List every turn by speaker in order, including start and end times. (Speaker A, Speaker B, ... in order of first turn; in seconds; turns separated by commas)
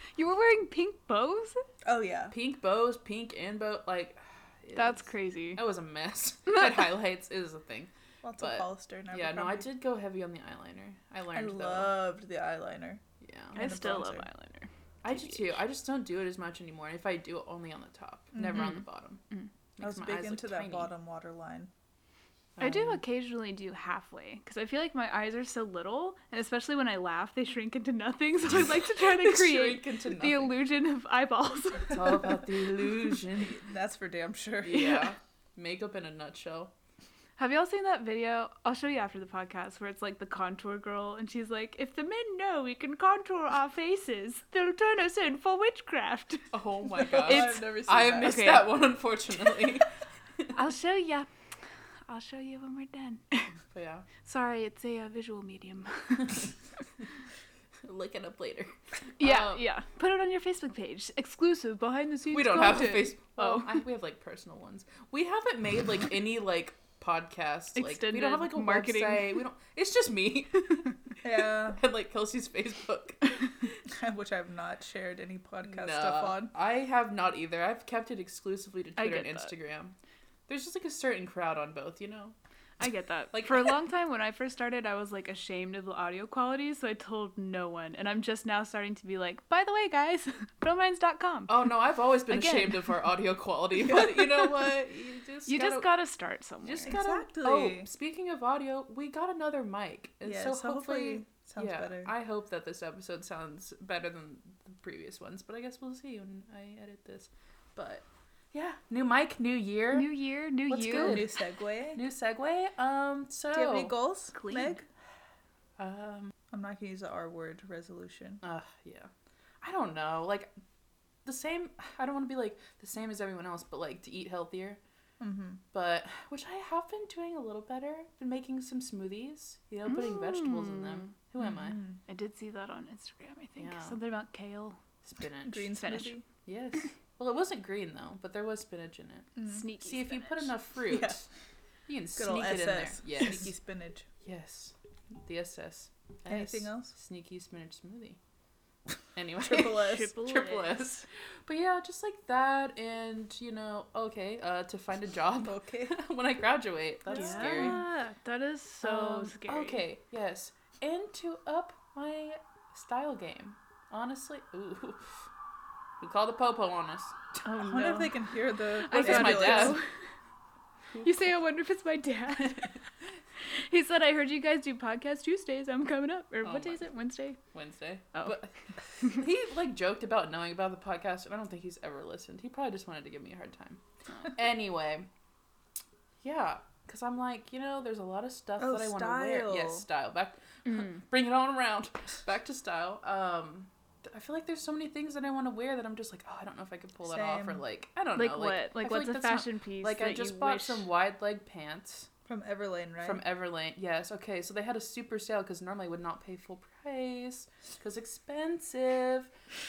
Speaker A: 0.1-1.6, Speaker B: 1.8-2.3, Speaker C: 2.3-11.9, Speaker A: 4.8-5.6, Speaker B: 8.2-9.7, Speaker B: 11.3-13.0, Speaker C: 13.2-13.6, Speaker B: 13.5-14.3, Speaker A: 13.5-15.6, Speaker C: 15.0-19.2, Speaker B: 18.3-18.7, Speaker A: 18.5-18.8, Speaker C: 19.8-20.9, Speaker B: 19.8-21.7, Speaker C: 22.6-23.0, Speaker A: 22.6-32.2, Speaker C: 29.0-30.5, Speaker C: 31.9-33.6, Speaker B: 33.4-35.1, Speaker C: 34.6-36.7, Speaker A: 37.4-46.5, Speaker C: 46.5-49.9, Speaker B: 47.0-48.5, Speaker A: 47.2-47.6, Speaker A: 48.2-48.7, Speaker A: 50.5-51.3, Speaker A: 52.1-53.5, Speaker C: 53.7-54.1, Speaker A: 54.2-56.5, Speaker C: 57.8-59.6, Speaker A: 59.2-63.8, Speaker C: 62.3-70.9, Speaker A: 67.8-69.4, Speaker B: 71.2-71.8, Speaker C: 71.6-73.4, Speaker B: 73.8-76.5, Speaker C: 75.7-79.9, Speaker A: 79.0-79.5, Speaker C: 80.5-82.3, Speaker A: 82.8-91.7, Speaker C: 83.3-83.7, Speaker C: 91.5-95.9, Speaker A: 92.3-92.9, Speaker A: 95.5-97.0, Speaker C: 96.6-110.1, Speaker B: 96.8-97.9, Speaker B: 100.2-102.1, Speaker A: 109.9-111.2, Speaker C: 110.7-111.3, Speaker B: 110.9-112.0, Speaker C: 111.9-113.9, Speaker B: 113.5-114.8, Speaker A: 114.3-114.8, Speaker C: 115.8-116.3, Speaker B: 116.5-118.4, Speaker C: 118.4-119.1, Speaker C: 119.6-120.5, Speaker C: 121.2-124.8, Speaker B: 125.2-125.6, Speaker C: 125.7-131.8, Speaker A: 129.9-131.1, Speaker B: 131.4-132.0, Speaker A: 132.1-134.8, Speaker C: 133.6-134.0, Speaker C: 135.0-135.7, Speaker B: 135.5-136.2, Speaker A: 135.7-136.1, Speaker C: 136.4-141.2, Speaker B: 139.3-139.6, Speaker A: 139.4-140.5, Speaker B: 140.9-141.2, Speaker C: 141.9-143.5, Speaker B: 142.1-144.1, Speaker C: 144.2-148.2, Speaker B: 146.3-146.9, Speaker C: 149.1-157.8, Speaker B: 149.4-150.1, Speaker A: 149.8-150.8, Speaker B: 155.4-156.0, Speaker B: 157.1-157.8, Speaker A: 157.1-159.8, Speaker C: 158.8-165.2, Speaker C: 166.0-167.2, Speaker A: 167.4-168.2, Speaker B: 167.5-169.8, Speaker A: 168.8-169.9, Speaker C: 168.9-169.8, Speaker A: 171.0-172.8, Speaker A: 173.5-177.4, Speaker C: 176.4-176.8, Speaker C: 177.5-183.8, Speaker C: 184.3-185.1, Speaker C: 186.2-202.1, Speaker B: 188.6-189.8, Speaker A: 190.7-191.0, Speaker B: 197.0-197.6, Speaker A: 198.1-200.8, Speaker B: 202.2-203.2, Speaker C: 203.0-209.3